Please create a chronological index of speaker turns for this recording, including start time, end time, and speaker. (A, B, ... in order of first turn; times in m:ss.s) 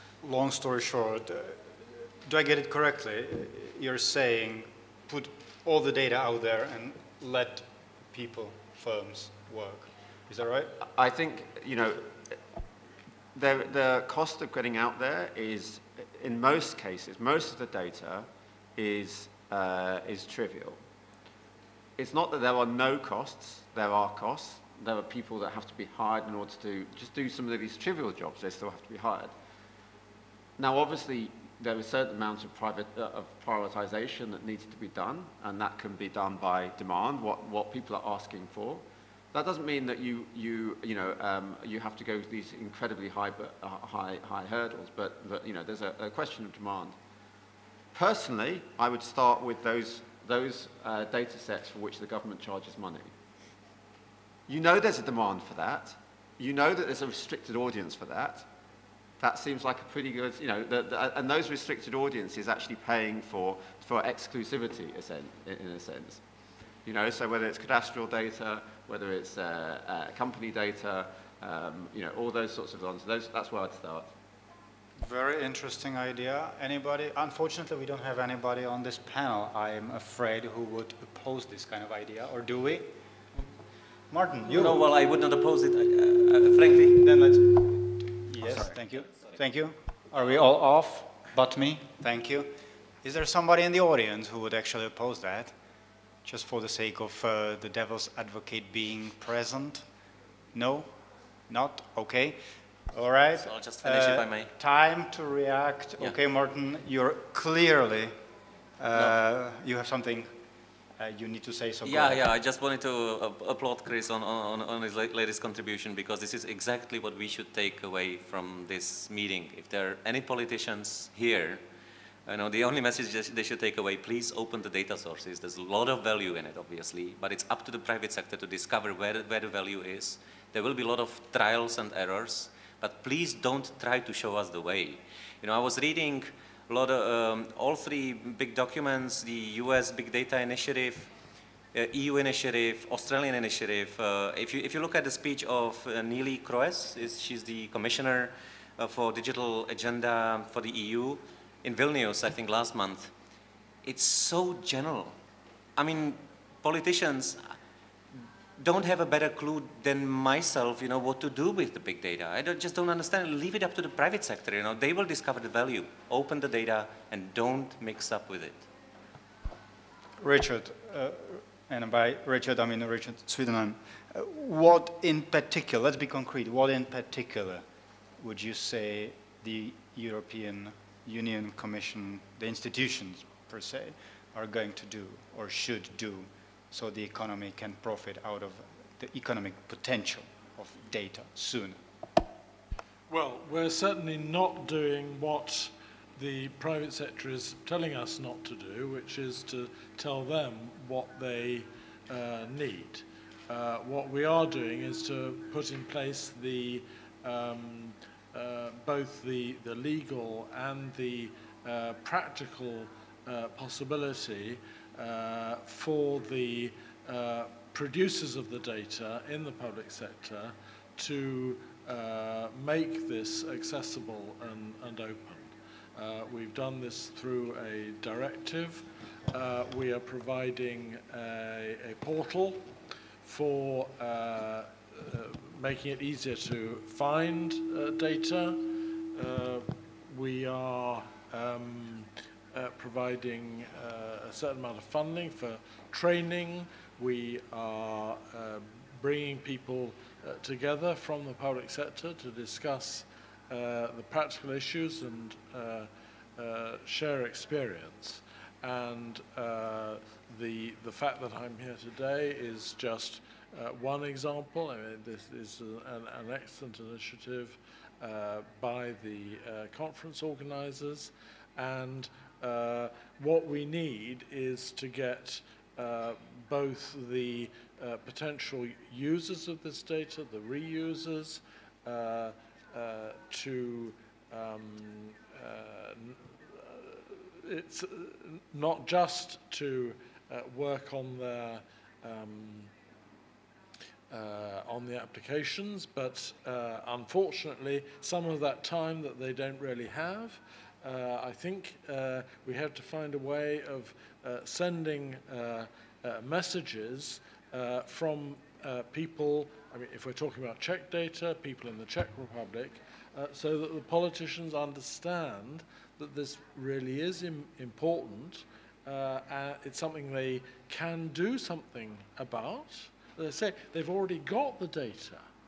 0:00.2-0:10.8 A
0:10.8-0:12.4 B
0:13.3-0:20.8 B
0:22.0-0:29.3 B
0:30.6-0:47.0 B
0:47.9-0:53.1 B
0:54.5-0:58.4 B
0:59.2-1:06.2 B
1:06.8-1:14.1 B
1:15.0-1:22.9 A
1:24.1-1:24.8 A
1:24.5-1:27.2 C
1:26.9-1:35.5 A
1:28.4-1:28.7 C
1:36.2-1:39.8 A
1:40.5-1:40.9 A
1:41.5-1:42.4 A
1:42.9-1:48.2 A
1:43.4-1:44.5 C
1:48.8-1:50.3 A
1:51.0-1:52.2 A
1:51.8-2:01.6 C
2:02.2-2:21.1 C
2:21.7-2:33.1 C
2:33.8-2:35.2 C
2:35.8-2:37.5 C
2:38.6-2:48.6 C
2:50.2-2:57.6 A
2:58.2-3:11.8 A
3:13.1-4:52.7 D
4:54.1-5:25.2 D